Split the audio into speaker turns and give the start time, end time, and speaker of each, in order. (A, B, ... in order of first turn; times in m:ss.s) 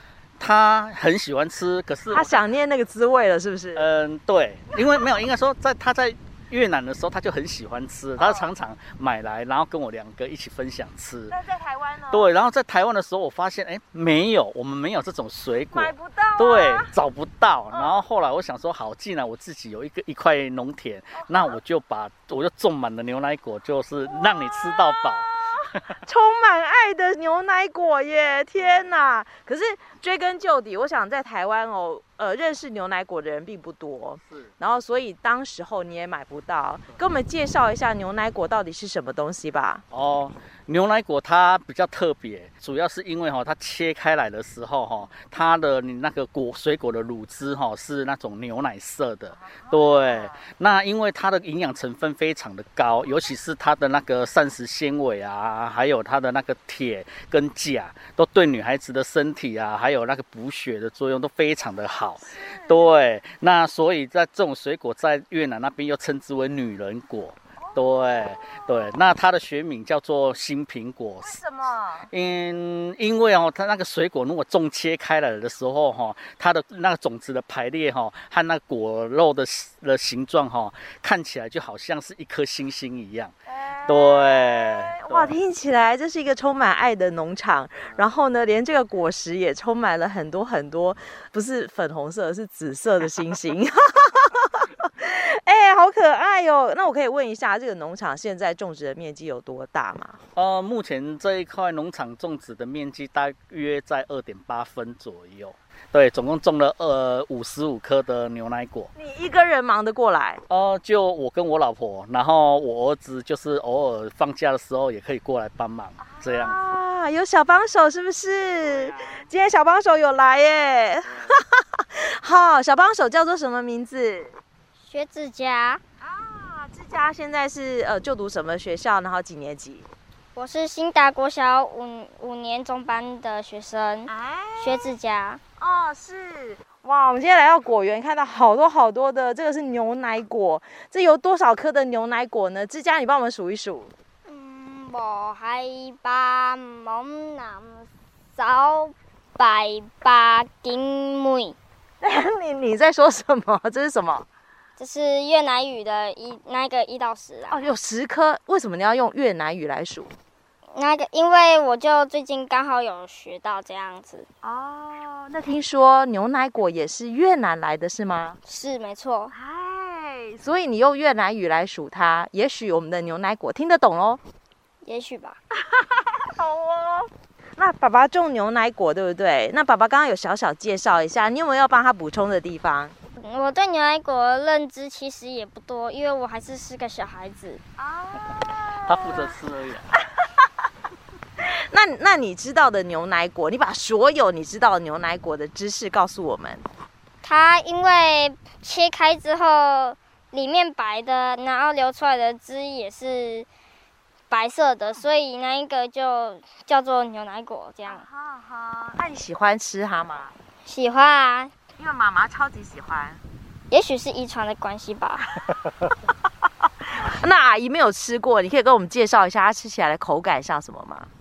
0:00.4-0:02.4 A
0:02.1-0:03.9 B
0:03.8-0:11.3 A
0:08.2-0:08.5 B
0:11.3-0:12.3 B
0:12.1-0:25.9 A
0:15.7-0:16.9 B
0:17.7-0:18.0 B
0:21.2-0:21.5 B
0:24.1-0:39.8 B
0:28.6-0:28.9 A
0:34.3-0:34.5 A
0:39.9-1:11.4 A
0:49.3-0:50.4 B
1:02.2-1:03.0 B
1:07.6-1:08.6 B
1:11.2-1:12.1 B
1:12.1-1:23.3 A
1:23.5-1:40.2 B
1:23.8-1:25.4 A
1:40.3-1:48.9 A
1:48.9-1:50.4 B
1:50.5-1:56.6 A
1:56.0-2:04.4 B
1:58.6-1:59.2 A
2:04.8-2:05.8 C
2:06.0-2:09.9 B
2:10.3-2:15.4 C
2:14.1-2:14.9 B
2:15.6-2:23.9 B
2:24.3-2:31.6 C
2:32.0-2:34.2 B
2:34.8-2:37.6 C
2:37.5-2:40.1 B
2:40.7-2:44.3 C
2:44.4-2:48.4 B
2:48.5-2:49.3 C
2:49.3-2:54.2 B
2:54.8-2:55.4 C
2:55.7-3:03.0 B
3:03.2-3:07.6 C
3:07.8-3:09.3 B
3:08.8-3:09.9 A
3:11.4-3:16.6 B
3:17.2-3:23.5 C
3:24.3-3:28.0 C
3:27.8-3:30.3 B
3:30.6-3:31.5 C
3:31.8-3:33.2 B
3:33.7-3:35.2 C
3:37.0-3:41.1 B